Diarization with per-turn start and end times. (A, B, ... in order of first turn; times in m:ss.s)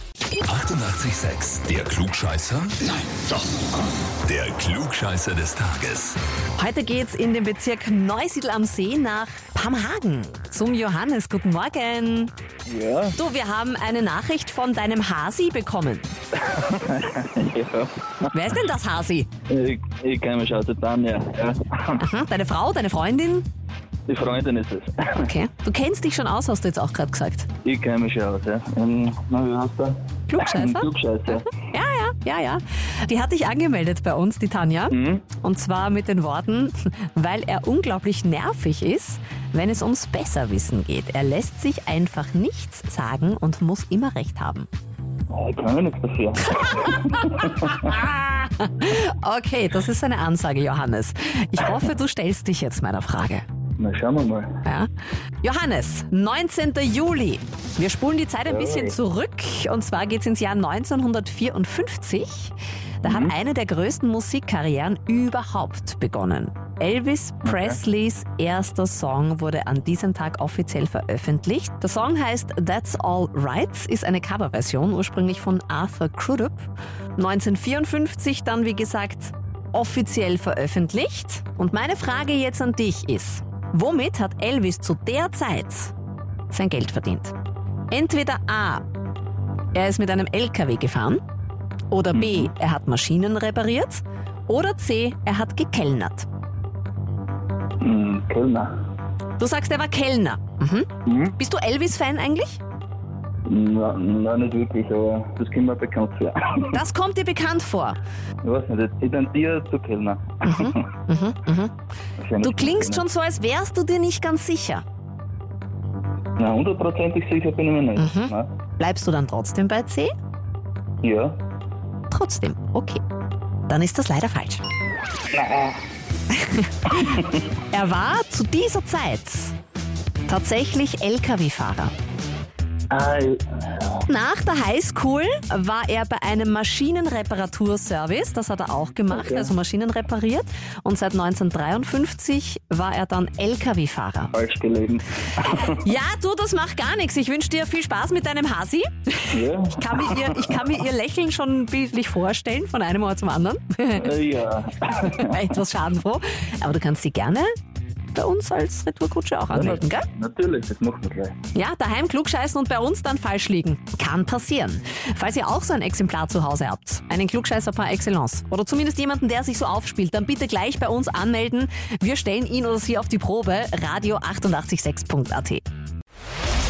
0:00.4-0:02.9 A
0:04.2-0:06.2 A
0:06.6-0:12.3 B
0:12.7-0:13.2 C
0:13.2-0:16.1 B
0:16.4-0:18.3 C
0:18.3-0:19.3 B
0:19.5-0:22.0 C
0:22.0-0:23.5 B
0:24.1-0:25.3 C
0:25.2-0:27.5 B
0:27.6-0:31.5 C
0:30.3-0:30.9 B
0:31.5-0:44.7 B
0:34.9-0:35.3 C
0:45.3-0:48.0 C
0:46.5-0:53.4 B
0:53.8-0:54.6 C
0:55.4-1:25.9 B
0:58.5-0:59.0 C
1:03.0-1:03.4 C
1:07.4-1:07.8 C
1:26.5-1:27.3 B
1:27.9-1:28.8 B
1:29.7-1:31.2 B
1:31.9-1:36.3 B
1:32.1-1:32.5 C
1:37.8-1:38.7 C
1:39.4-1:42.6 B
1:41.1-1:41.3 C
1:43.4-1:46.8 C
1:46.7-1:48.0 B
1:48.4-1:50.8 C
1:50.4-1:51.7 B
1:52.2-1:53.0 C
1:52.4-1:54.8 B
1:56.4-1:58.5 C
1:58.0-2:00.1 B
2:01.0-2:01.4 C
2:02.1-2:03.0 B
2:03.7-2:04.6 B
2:05.3-2:05.8 C
2:06.3-2:07.2 B
2:06.9-2:07.4 C
2:07.7-2:09.6 B
2:10.3-2:11.9 B
2:12.9-2:14.0 C
2:14.1-2:24.3 B
2:19.1-2:19.5 C
2:24.3-2:25.8 C
2:25.7-2:34.2 B
2:29.3-2:30.7 C
2:34.0-2:35.6 C
2:35.0-2:37.5 B
2:38.1-2:40.1 B
2:39.5-2:41.4 C
2:41.5-2:55.6 B